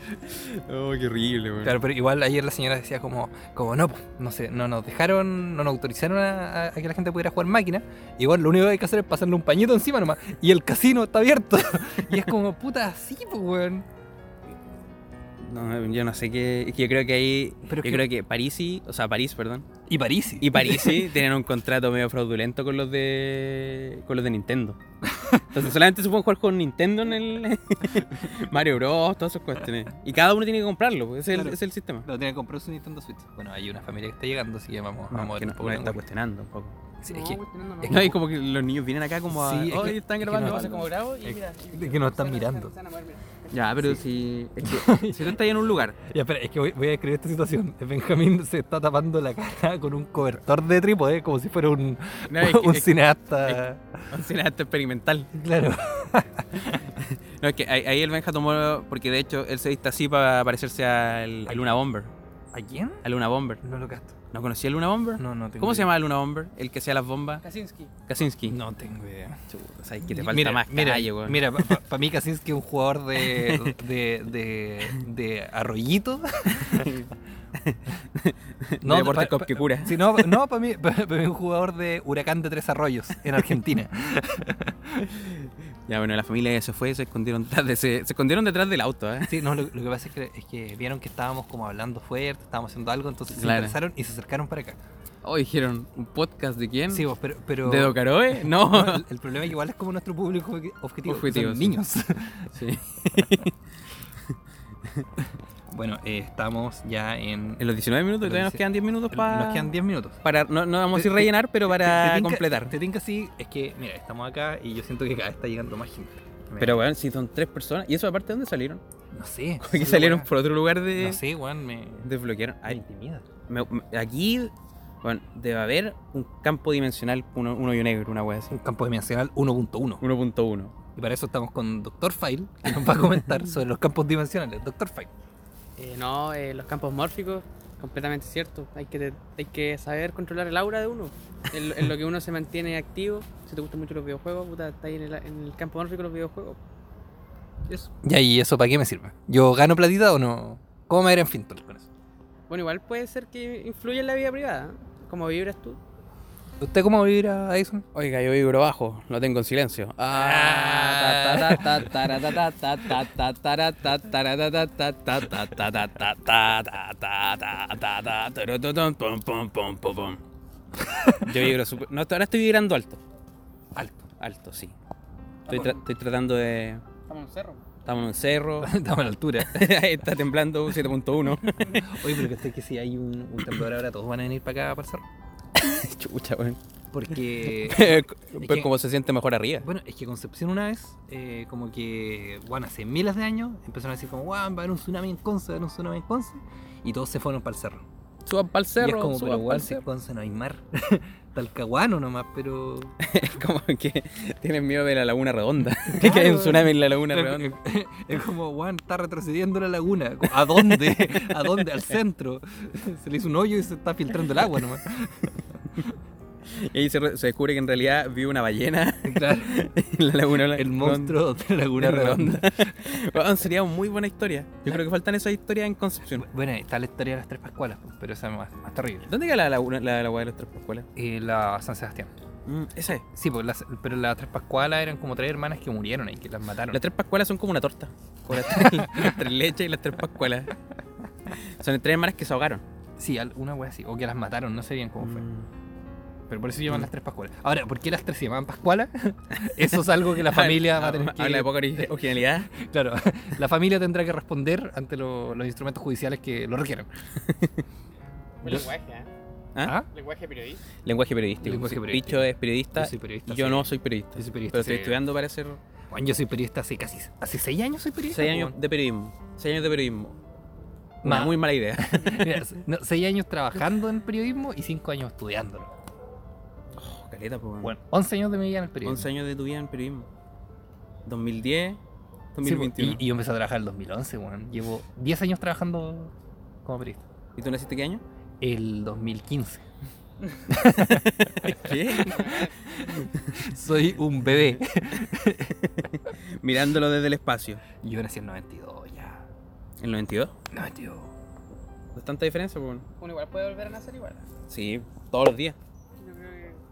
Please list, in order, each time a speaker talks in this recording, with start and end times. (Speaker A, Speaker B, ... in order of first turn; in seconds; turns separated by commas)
Speaker A: 0.2-1.8, Speaker B: 1.6-13.8, Speaker A: 15.4-19.7, Speaker B: 17.6-18.1, Speaker B: 19.9-21.1, Speaker A: 20.4-24.8, Speaker B: 25.0-25.7, Speaker A: 25.5-32.0, Speaker B: 31.3-36.0, Speaker A: 35.1-36.8, Speaker B: 37.0-38.2, Speaker C: 37.1-38.1, Speaker A: 37.8-41.3, Speaker B: 39.3-40.8, Speaker C: 40.2-43.9, Speaker B: 41.7-42.7, Speaker A: 43.5-46.0, Speaker B: 44.6-45.4, Speaker B: 46.0-54.0, Speaker A: 52.3-55.3, Speaker B: 55.3-56.9, Speaker A: 56.9-62.1, Speaker B: 61.5-61.8, Speaker B: 62.5-63.0, Speaker A: 63.0-63.6, Speaker B: 63.6-64.1, Speaker A: 64.3-67.4, Speaker B: 65.2-65.9, Speaker C: 67.4-67.9, Speaker A: 68.1-68.6, Speaker B: 68.5-69.4, Speaker A: 69.5-71.7, Speaker B: 70.0-77.0, Speaker A: 73.3-73.7, Speaker A: 76.6-80.3, Speaker B: 78.8-85.1, Speaker A: 85.1-89.3, Speaker B: 89.3-94.8, Speaker A: 93.3-93.8, Speaker A: 95.2-97.1, Speaker B: 96.9-102.6, Speaker A: 97.6-99.0, Speaker A: 101.0-101.8, Speaker A: 102.5-103.5, Speaker B: 105.2-107.6, Speaker A: 107.6-109.7, Speaker B: 108.2-110.2, Speaker A: 110.2-112.7, Speaker B: 110.9-116.8, Speaker A: 116.6-118.8, Speaker B: 119.1-120.3, Speaker A: 119.6-121.2, Speaker B: 121.0-122.1, Speaker A: 122.0-122.8, Speaker B: 122.7-123.3, Speaker A: 123.5-124.5, Speaker A: 125.0-128.5, Speaker B: 128.5-130.0, Speaker A: 130.0-130.7, Speaker B: 130.9-135.1, Speaker C: 135.8-146.6, Speaker B: 147.7-151.9, Speaker C: 152.5-155.8, Speaker B: 156.6-157.8, Speaker A: 157.9-170.2, Speaker B: 160.1-162.1, Speaker B: 170.8-171.5, Speaker A: 171.2-173.0, Speaker B: 173.7-174.1, Speaker A: 174.2-174.7, Speaker C: 175.5-175.8, Speaker A: 175.5-176.8, Speaker C: 177.1-177.6, Speaker A: 177.8-178.7, Speaker B: 178.6-179.7, Speaker A: 179.4-181.8, Speaker B: 181.4-185.0, Speaker A: 185.6-186.6, Speaker B: 186.9-188.7, Speaker A: 187.1-189.6, Speaker B: 189.6-197.8, Speaker A: 198.2-199.8, Speaker B: 198.8-202.9, Speaker A: 203.0-207.4, Speaker B: 205.9-215.3, Speaker A: 216.4-221.2, Speaker B: 219.0-219.7, Speaker B: 220.5-222.7, Speaker A: 221.8-226.2, Speaker B: 226.1-229.1, Speaker A: 229.1-230.9, Speaker B: 230.9-232.1, Speaker A: 232.4-233.0, Speaker B: 233.1-236.8, Speaker A: 236.7-240.5, Speaker B: 238.3-239.2, Speaker A: 241.3-242.6, Speaker B: 243.0-245.2, Speaker A: 245.0-245.5, Speaker B: 246.3-251.9, Speaker A: 250.1-252.5, Speaker B: 252.5-256.9, Speaker A: 257.2-257.6, Speaker C: 258.4-259.1, Speaker C: 259.9-260.6, Speaker A: 260.8-265.6, Speaker B: 261.4-265.0, Speaker B: 265.9-268.6, Speaker A: 268.1-270.2, Speaker A: 271.0-272.4, Speaker B: 271.0-275.7, Speaker A: 276.8-277.7, Speaker B: 277.6-279.1, Speaker A: 278.8-280.1, Speaker A: 281.1-281.8, Speaker A: 282.3-283.0, Speaker B: 282.4-286.1, Speaker B: 286.6-287.0, Speaker A: 287.4-288.0, Speaker B: 288.4-289.6, Speaker B: 290.5-292.2, Speaker A: 290.9-293.4, Speaker C: 292.0-292.7, Speaker B: 292.8-295.6, Speaker A: 295.6-297.6, Speaker B: 297.8-299.2, Speaker A: 299.8-300.3, Speaker B: 300.5-301.1, Speaker A: 301.9-302.9, Speaker C: 303.0-304.3, Speaker A: 304.5-305.6, Speaker C: 306.0-306.6